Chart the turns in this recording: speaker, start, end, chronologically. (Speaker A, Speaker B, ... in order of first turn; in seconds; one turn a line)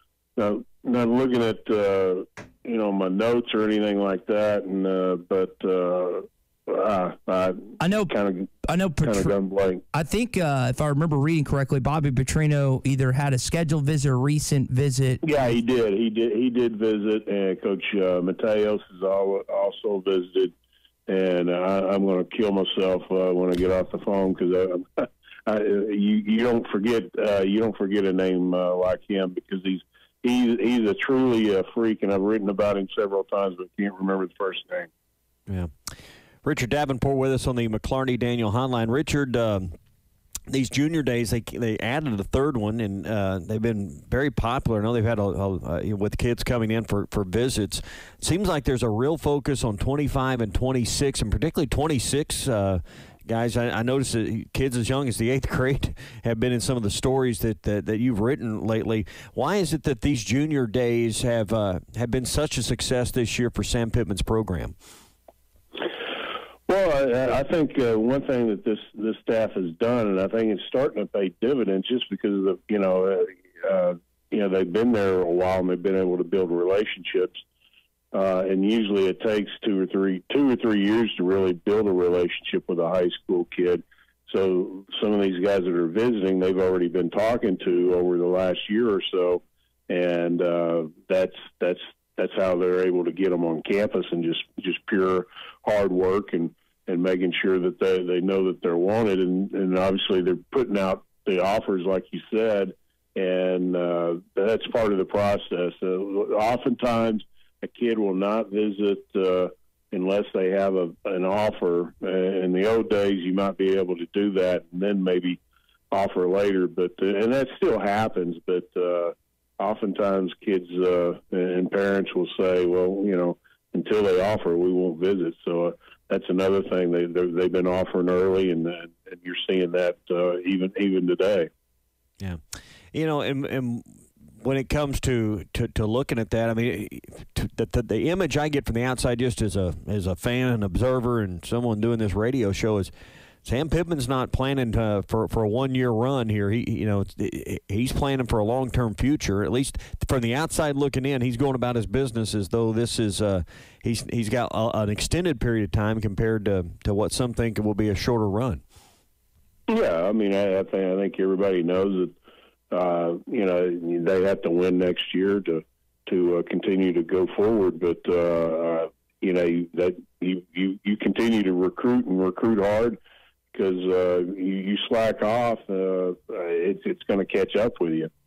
Speaker A: 0.4-8.5
Speaker B: 7.8-8.1
Speaker B: 8.6-9.3
Speaker A: 9.0-9.8
Speaker B: 9.9-15.2
Speaker A: 15.2-20.5
Speaker A: 21.1-34.9
Speaker C: 36.4-39.7
Speaker C: 40.5-64.7
Speaker A: 66.7-77.4
Speaker A: 78.1-115.4
Speaker A: 115.9-131.5
Speaker C: 132.9-142.9
Speaker C: 143.4-158.6
Speaker A: 159.7-162.1
Speaker A: 162.7-173.0
Speaker A: 173.5-178.1